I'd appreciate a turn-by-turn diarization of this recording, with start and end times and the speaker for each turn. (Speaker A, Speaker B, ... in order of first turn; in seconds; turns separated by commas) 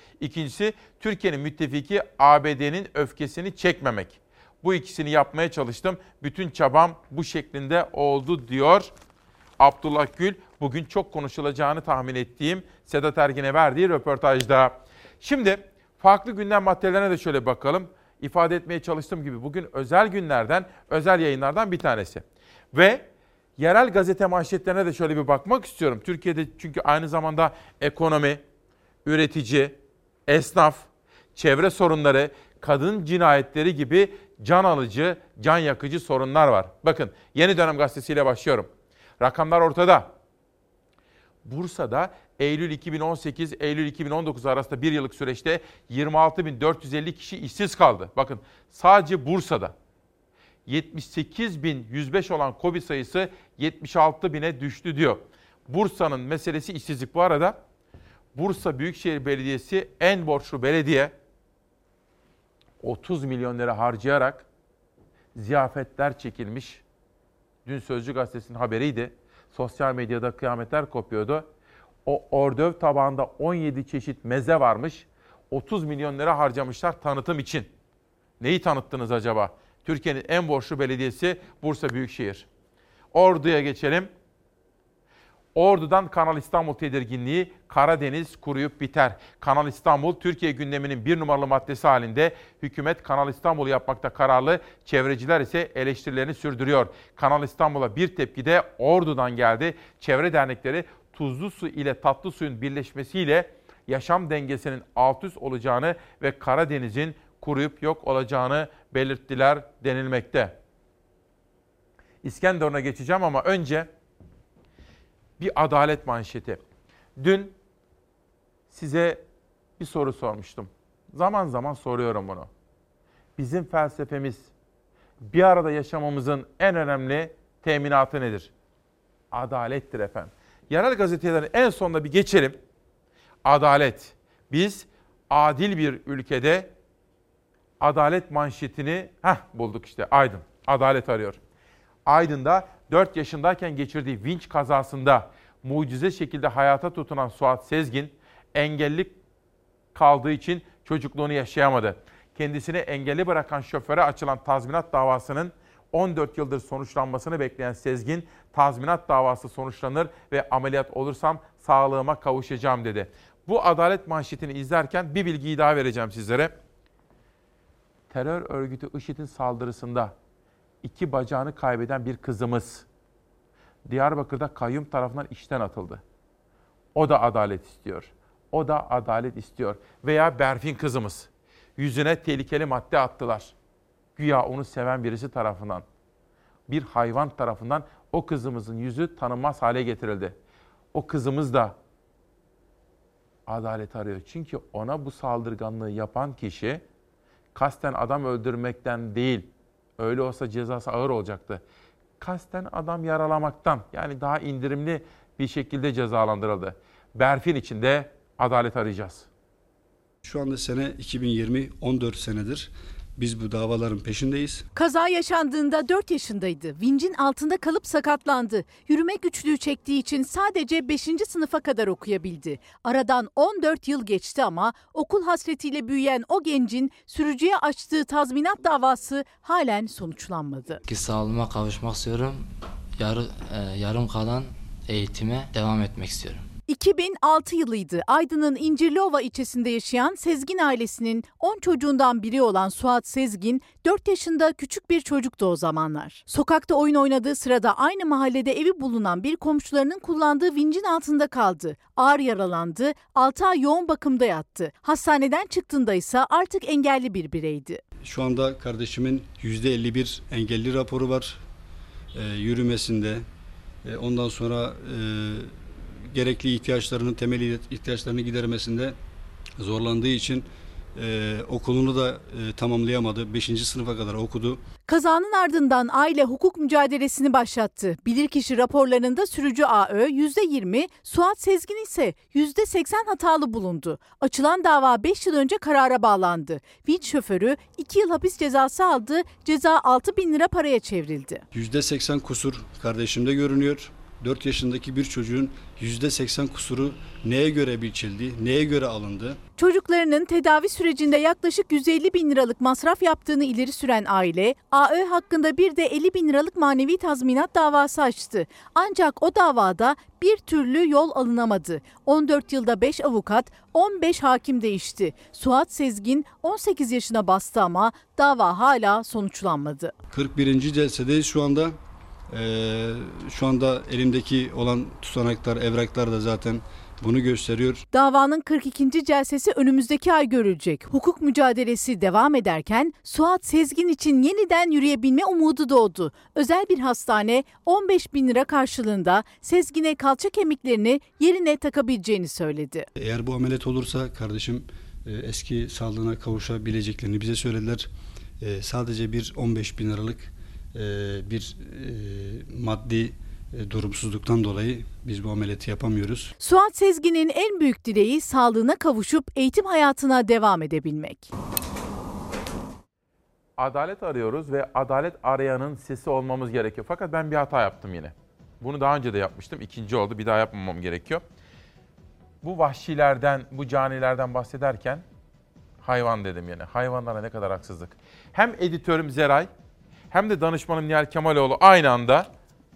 Speaker A: 0.2-8.9, Speaker A: 9.6-23.1, Speaker A: 23.6-28.4, Speaker A: 29.0-29.8, Speaker A: 30.3-38.7, Speaker A: 39.2-40.1, Speaker A: 41.4-49.7, Speaker A: 50.7-57.6, Speaker A: 58.3-61.1, Speaker A: 62.8-64.5, Speaker A: 65.3-66.8, Speaker A: 67.7-71.5, Speaker A: 72.0-77.7, Speaker A: 78.4-82.5, Speaker A: 83.1-84.1, Speaker A: 85.5-110.5, Speaker A: 112.2-113.9, Speaker A: 115.4-116.6, Speaker A: 117.2-117.5, Speaker A: 118.7-119.2, Speaker A: 119.8-122.5, Speaker A: 123.4-124.5, Speaker A: 125.2-128.5, Speaker A: 129.3-132.6, Speaker A: 133.4-136.7, Speaker A: 137.8-141.4, Speaker A: 142.1-149.1, Speaker A: 149.9-166.5, Speaker A: 168.1-170.1, Speaker A: 170.8-172.8, Speaker A: 173.8-176.0, Speaker A: 176.9-183.5, Speaker A: 184.2-185.8, Speaker A: 186.7-190.3, Speaker A: 190.9-191.7, Speaker A: 193.5-196.8, Speaker A: 197.5-199.5, Speaker A: 200.0-201.6, Speaker A: 202.2-209.3, Speaker B: 210.2-214.6, Speaker C: 214.7-230.8, Speaker D: 230.8-236.4, Speaker C: 236.7-257.8, Speaker B: 258.0-261.4, Speaker B: 262.1-263.2, Speaker B: 263.8-268.9, Speaker B: 269.6-274.6, Speaker C: 274.8-291.4, Speaker B: 291.5-299.4, Speaker C: 299.6-319.9, Speaker B: 320.1-321.8, Speaker B: 322.3-327.9, Speaker C: 327.9-342.9, Speaker B: 342.9-356.3, Speaker C: 356.4-361.3, Speaker A: 363.6-371.2, Speaker A: 372.4-375.0, Speaker A: 375.8-379.5, Speaker A: 380.1-382.3